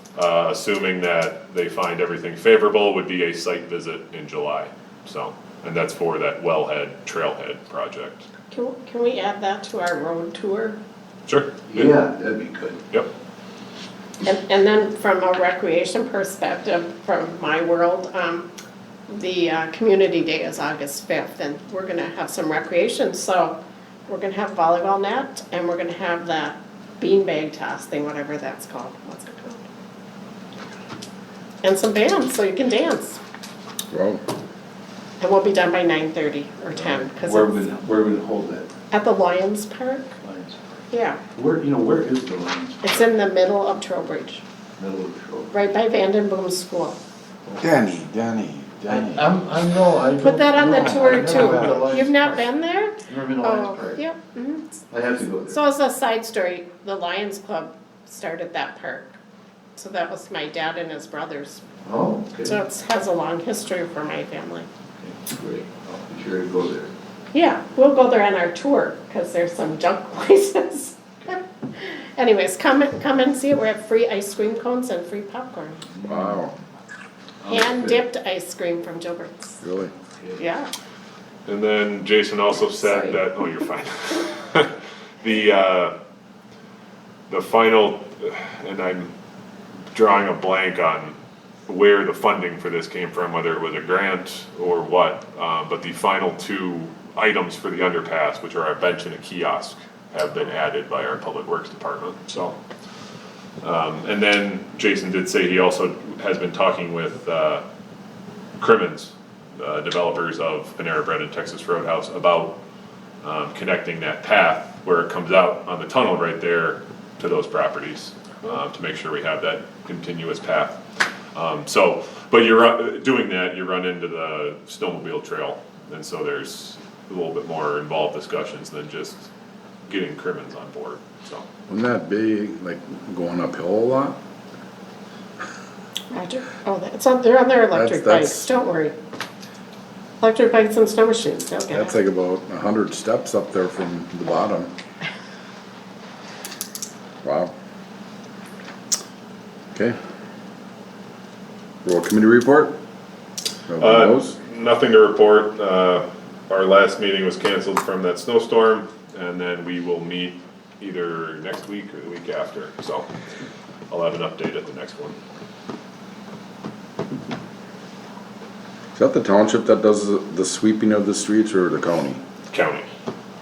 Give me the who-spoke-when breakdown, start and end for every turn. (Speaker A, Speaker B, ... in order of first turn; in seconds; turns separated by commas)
Speaker A: 0.2-8.3, Speaker B: 8.5-10.8, Speaker A: 11.3-12.0, Speaker C: 11.7-12.8, Speaker B: 14.2-18.5, Speaker B: 19.1-23.6, Speaker B: 24.1-29.6, Speaker B: 31.6-33.2, Speaker D: 33.9-34.2, Speaker B: 35.2-37.6, Speaker C: 36.9-38.7, Speaker B: 38.9-40.1, Speaker C: 40.2-40.8, Speaker B: 40.9-41.2, Speaker C: 41.3-43.0, Speaker B: 42.8-44.4, Speaker C: 44.8-45.5, Speaker B: 45.5-47.0, Speaker D: 47.6-49.3, Speaker C: 48.9-52.5, Speaker B: 50.2-54.8, Speaker D: 50.6-52.0, Speaker C: 53.0-54.0, Speaker C: 54.9-55.6, Speaker B: 55.5-59.1, Speaker B: 59.8-61.6, Speaker C: 61.8-62.5, Speaker B: 62.4-64.7, Speaker C: 65.0-66.9, Speaker B: 67.3-75.8, Speaker C: 75.9-76.4, Speaker D: 76.0-76.5, Speaker C: 77.4-78.0, Speaker B: 77.5-79.6, Speaker D: 79.6-79.9, Speaker B: 80.4-80.7, Speaker A: 81.5-85.9, Speaker A: 87.3-89.1, Speaker A: 89.9-91.2, Speaker A: 91.7-102.6, Speaker A: 103.6-107.6, Speaker A: 108.6-112.6, Speaker A: 113.2-120.8, Speaker A: 121.3-129.2, Speaker A: 129.9-131.5, Speaker D: 131.7-134.2, Speaker B: 136.1-138.9, Speaker D: 137.7-138.5, Speaker B: 140.2-141.9, Speaker D: 141.7-144.7, Speaker D: 147.2-147.5, Speaker D: 151.8-152.8, Speaker D: 153.7-154.4, Speaker A: 153.8-163.1, Speaker A: 163.9-165.2, Speaker D: 168.9-172.2, Speaker A: 172.5-172.9